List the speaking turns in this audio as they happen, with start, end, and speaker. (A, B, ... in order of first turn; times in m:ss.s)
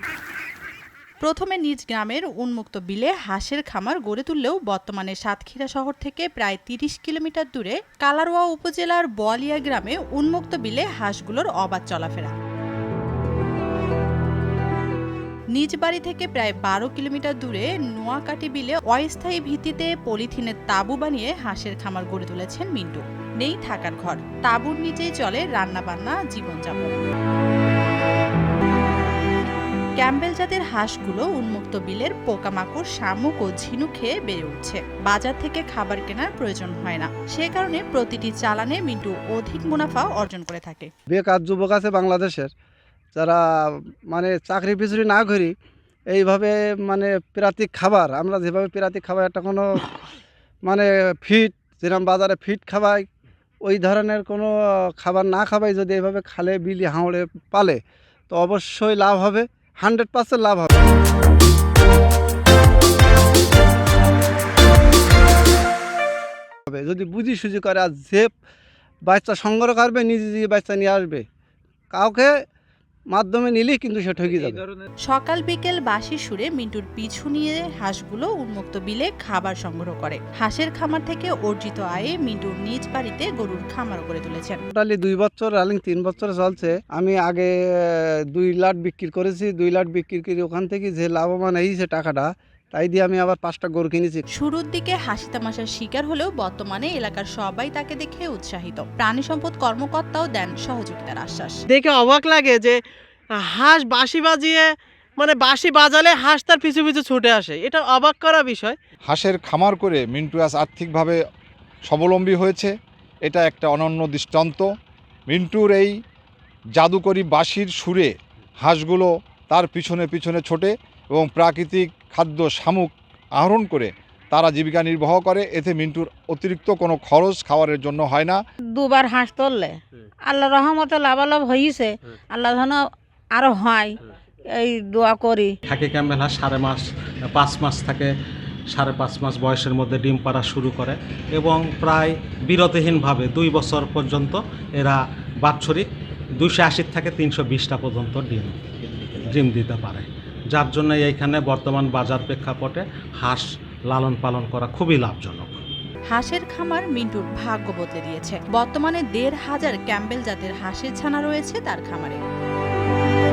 0:01.2-0:12.3 A
0:15.5-0:27.0 A
0:30.0-0:40.9 A
0:41.1-0:42.5 B
0:43.1-0:45.5 B
0:46.1-0:49.8 B
0:50.6-0:53.0 B
0:53.6-0:57.8 B
0:58.3-1:00.8 B
1:06.7-1:08.3 B
1:09.1-1:11.2 B
1:11.9-1:12.3 B
1:13.1-1:14.6 B
1:15.0-1:24.6 A
1:24.7-1:34.2 B
1:34.3-1:41.6 A
1:41.7-1:42.8 C
1:43.4-1:48.8 C
1:49.1-1:51.2 D
1:51.9-1:52.7 D
1:53.2-1:54.7 D
1:55.3-1:55.9 D
1:56.7-2:08.4 D
2:08.7-2:14.0 E
2:14.5-2:15.6 E
2:15.7-2:18.1 F
2:18.7-2:25.8 F
2:26.4-2:28.6 F
2:29.3-2:35.6 F
2:36.1-2:42.2 A